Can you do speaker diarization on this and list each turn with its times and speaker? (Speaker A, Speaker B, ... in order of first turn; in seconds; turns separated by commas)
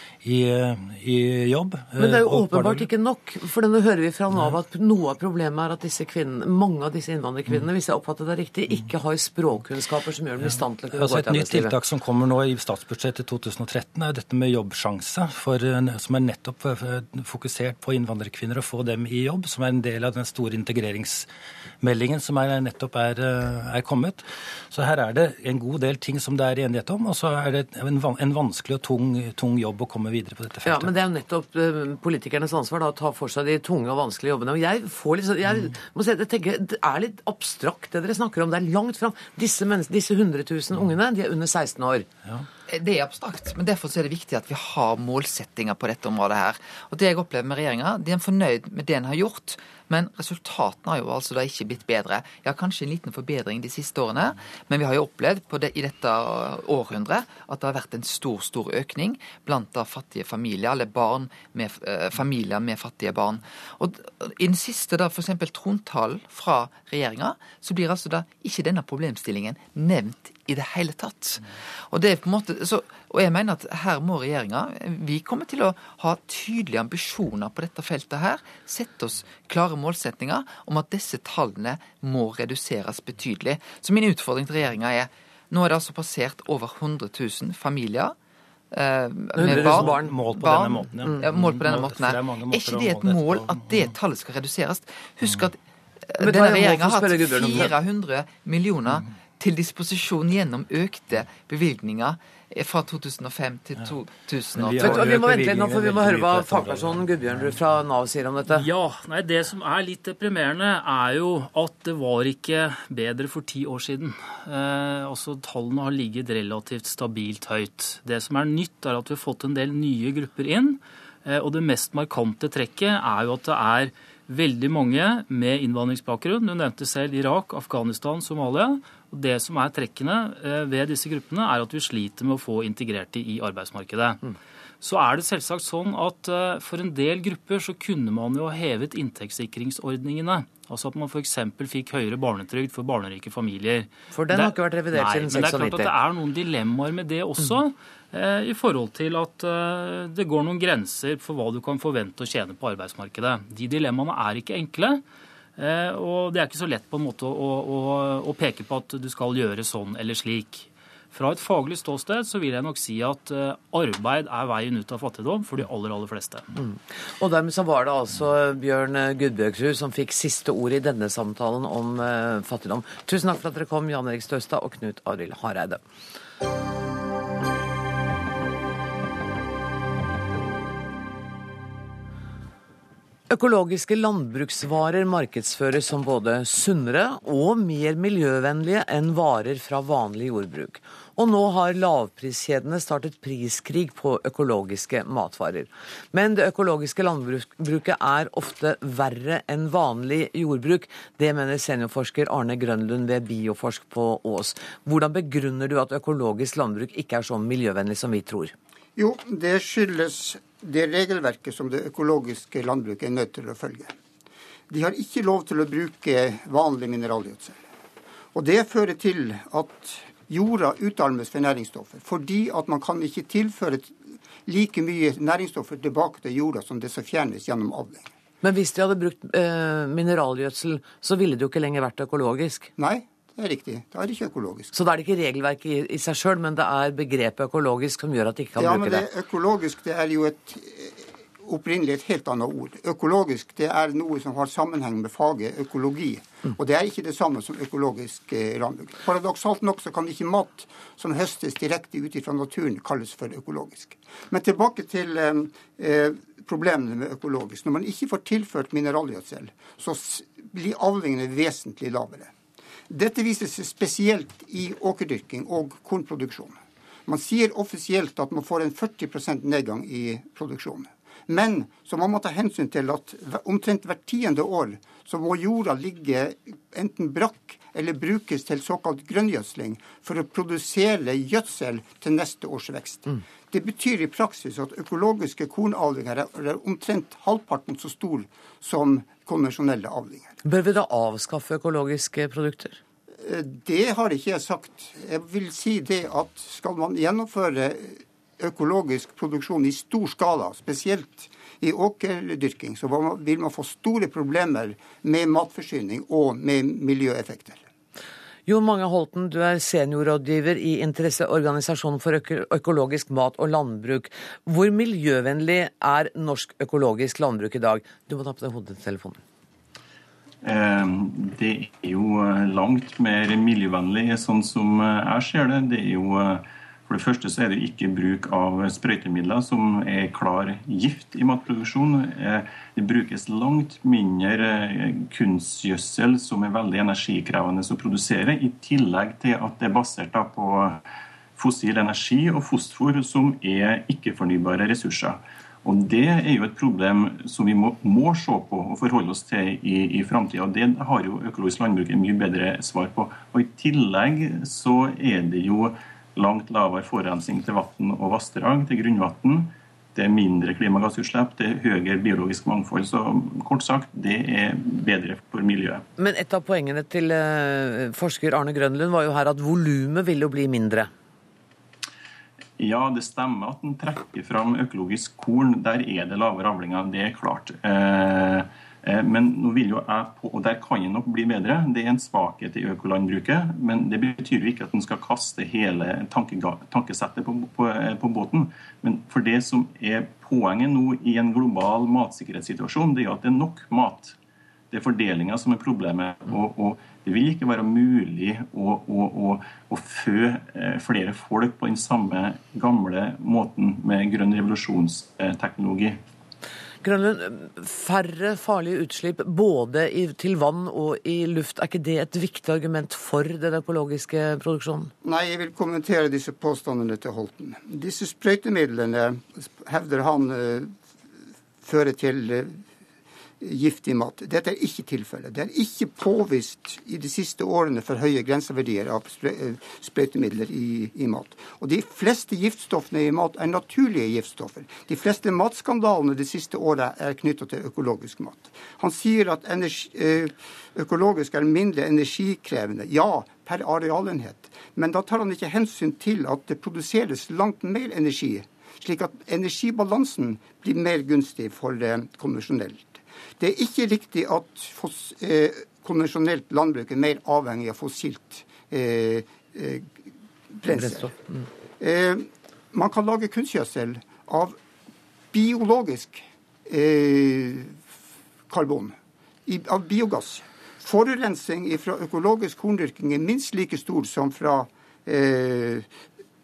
Speaker A: 0.2-2.9, Speaker B: 2.0-11.8, Speaker A: 10.5-21.3, Speaker A: 21.8-30.9, Speaker B: 30.6-42.1, Speaker C: 42.7-88.2, Speaker C: 88.7-105.2, Speaker B: 89.4-90.2, Speaker A: 89.4-93.9, Speaker B: 91.0-91.3, Speaker B: 96.2-97.7, Speaker A: 104.6-107.5, Speaker B: 104.7-108.6, Speaker D: 108.5-134.2, Speaker D: 134.8-155.0, Speaker B: 144.1-145.9, Speaker D: 155.6-166.5, Speaker B: 166.6-175.8, Speaker B: 183.3-208.5, Speaker E: 209.0-213.9, Speaker E: 214.7-217.6, Speaker E: 218.3-228.1, Speaker B: 228.4-232.7, Speaker E: 232.8-234.7, Speaker B: 234.7-239.1, Speaker E: 238.6-262.3, Speaker E: 262.9-290.4, Speaker B: 290.4-292.8, Speaker E: 293.2-307.6, Speaker B: 308.5-319.2, Speaker F: 320.4-340.8, Speaker F: 341.4-365.8, Speaker B: 366.0-370.9, Speaker F: 372.6-394.1, Speaker F: 394.7-406.0, Speaker B: 406.8-414.9, Speaker E: 415.0-420.7, Speaker E: 421.6-422.6, Speaker E: 423.4-460.0, Speaker E: 460.5-461.2, Speaker B: 460.7-461.4, Speaker E: 461.8-464.6, Speaker E: 465.3-467.8, Speaker E: 468.5-475.9